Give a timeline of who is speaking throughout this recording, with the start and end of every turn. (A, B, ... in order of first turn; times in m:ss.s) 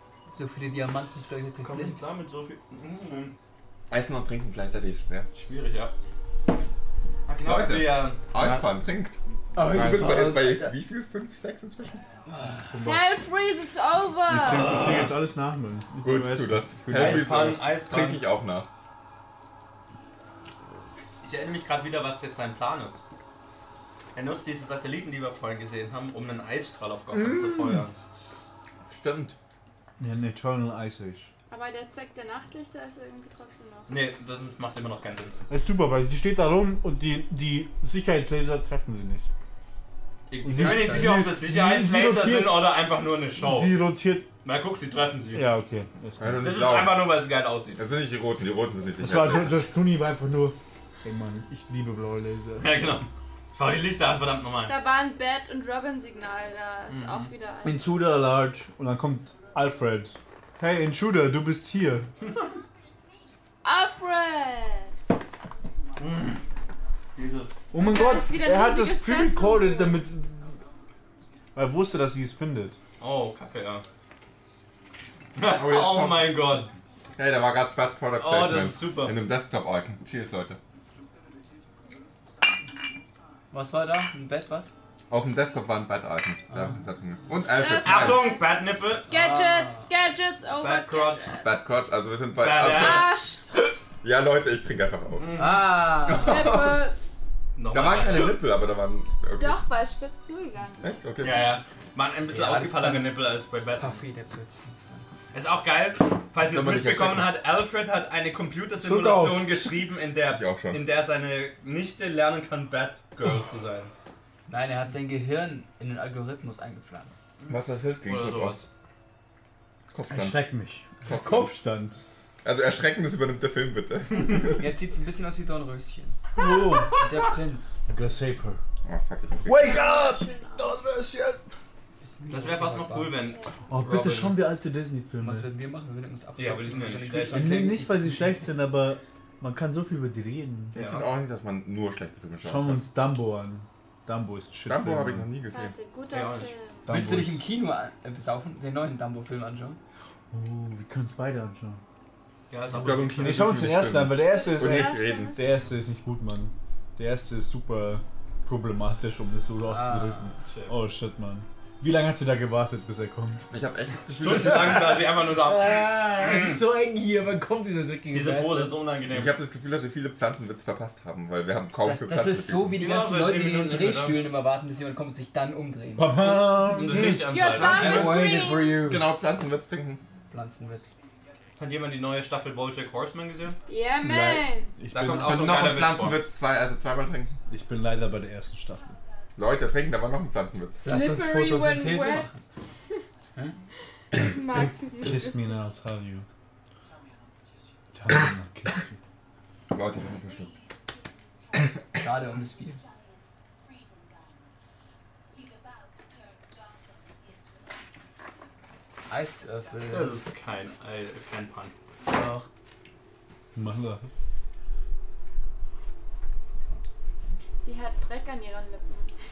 0:00.3-0:02.0 A
0:01.6-0:03.3 B
0:03.9-0:05.3 C
0:05.3-0:05.9 B
0:07.3-0:08.2 B
0:07.4-0:12.0 C
0:08.4-0:08.7 D
0:09.6-0:10.7 A
0:09.6-0:10.1 D
0:12.7-0:13.1 D
0:12.8-0:14.8 E
0:14.2-0:17.6 D
0:14.4-0:15.2 B
0:16.0-0:18.7 C
0:16.9-0:18.2 B
0:21.2-0:23.0 B
0:24.1-0:28.0 B
0:27.1-0:27.8 C
0:28.9-0:29.4 C
0:30.0-0:31.3 D
0:31.5-0:33.9 E
0:33.9-0:35.4 B
0:35.5-0:39.3 D
0:40.3-0:43.8 B
0:40.4-0:42.7 D
0:40.6-0:41.2 A
0:43.4-0:44.3 D
0:44.4-0:45.5 B
0:45.3-0:46.5 D
0:46.2-0:47.1 C
0:46.4-0:47.8 B
0:47.7-0:49.6 C
0:49.0-0:52.7 D
0:52.6-0:54.7 B
0:54.7-0:57.8 E
0:56.9-0:57.3 B
0:57.6-1:02.1 D
1:03.6-1:04.9 E
1:06.0-1:06.4 B
1:07.2-1:07.5 B
1:07.7-1:10.6 D
1:07.7-1:10.1 E
1:11.5-1:12.8 D
1:13.0-1:13.8 B
1:15.3-1:16.7 B
1:15.5-1:16.5 C
1:17.2-1:20.6 C
1:18.2-1:19.2 B
1:23.5-1:24.7 A
1:25.1-1:28.2 C
1:26.5-1:26.8 A
1:27.5-1:28.5 E
1:27.6-1:29.1 B
1:29.1-1:31.5 E
1:29.1-1:29.8 A
1:30.6-1:31.4 B
1:31.4-1:33.2 C
1:32.4-1:33.2 B
1:32.6-1:33.4 E
1:34.0-1:36.8 C
1:35.2-1:36.0 B
1:35.3-1:36.5 A
1:36.1-1:37.0 E
1:37.5-1:38.4 B
1:37.7-1:39.6 C
1:39.4-1:41.0 E
1:40.8-1:41.6 C
1:41.2-1:44.0 B
1:42.3-1:45.1 A
1:45.3-1:53.9 B
1:46.4-1:47.3 C
1:48.8-1:49.8 D
1:50.2-1:50.8 C
1:54.5-1:57.2 A
1:57.4-1:58.6 B
1:57.5-1:58.6 C
1:59.9-2:00.4 C
2:00.1-2:02.0 D
2:01.0-2:01.5 C
2:02.4-2:04.6 C
2:04.5-2:06.2 A
2:06.4-2:07.0 D
2:07.0-2:07.8 A
2:07.9-2:08.6 D
2:08.8-2:09.8 C
2:09.3-2:10.8 E
2:09.4-2:11.4 D
2:12.0-2:13.2 A
2:12.3-2:14.4 B
2:13.7-2:15.5 D
2:15.2-2:18.4 A
2:16.4-2:17.6 B
2:17.3-2:20.8 D
2:20.7-2:21.1 B
2:20.7-2:22.8 C
2:22.4-2:25.3 D
2:24.6-2:25.7 C
2:25.5-2:26.9 E
2:26.1-2:26.5 B
2:26.8-2:27.4 D
2:26.9-2:29.8 A
2:30.3-2:31.8 D
2:32.5-2:33.4 B
2:32.7-2:35.4 C
2:33.0-2:43.5 D
2:34.3-2:35.5 E
2:39.7-2:40.3 A
2:40.4-2:40.8 B
2:43.5-2:45.0 C
2:44.2-2:46.6 B
2:44.3-2:48.7 D
2:48.1-2:49.4 B
2:49.1-2:52.8 C
2:51.8-2:56.5 A
2:52.8-2:54.2 B
2:56.0-2:57.2 D
2:56.6-2:58.1 B
2:56.9-3:00.0 C
2:57.2-2:58.8 E
2:57.7-2:59.0 A
3:00.3-3:00.9 A
3:01.6-3:03.6 B
3:03.7-3:04.8 E
3:04.0-3:05.4 D
3:04.9-3:06.2 B
3:05.1-3:07.3 C
3:07.5-3:09.0 D
3:09.4-3:10.8 C
3:10.8-3:12.5 A
3:10.8-3:12.3 E
3:14.1-3:15.6 E
3:15.0-3:16.2 D
3:17.9-3:19.0 D
3:19.7-3:20.5 C
3:21.9-3:22.8 A
3:29.1-3:30.2 A
3:29.9-3:32.4 B
3:33.5-3:34.1 D
3:37.6-3:39.1 E